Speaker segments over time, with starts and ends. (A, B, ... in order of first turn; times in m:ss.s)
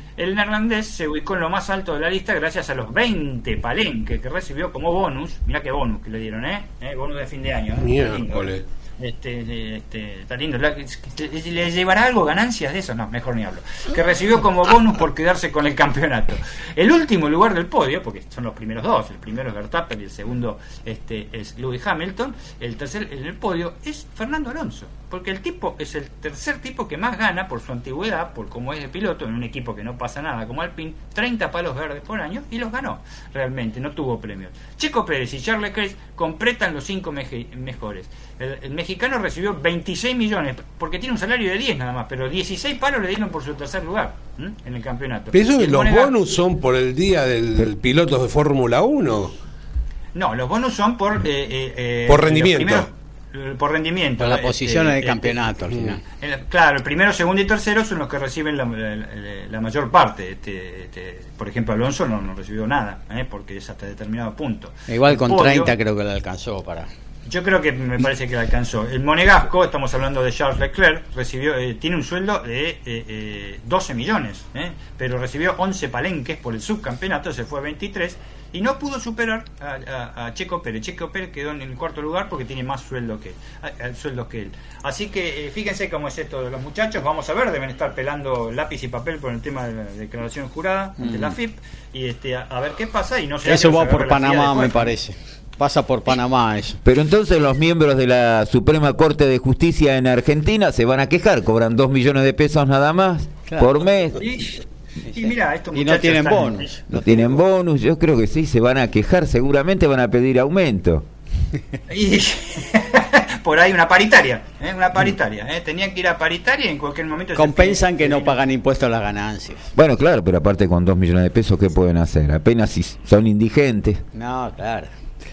0:00.2-0:46.2 A
0:07.8-0:08.6 B
0:45.3-0:49.3 B
0:50.2-0:55.5 A
0:52.1-0:52.9 B
0:54.2-0:56.0 C
0:56.2-1:05.7 A
1:04.9-1:06.9 C
1:07.3-1:34.9 A
1:31.0-1:31.3 C
1:33.4-1:36.8 C
1:36.8-1:44.2 D
1:44.2-1:44.6 A
1:45.1-1:46.8 A
1:45.7-1:47.4 C
1:47.0-1:51.1 D
1:51.9-1:58.4 A
1:57.4-1:59.7 C
1:59.8-2:04.0 D
2:04.1-2:04.9 C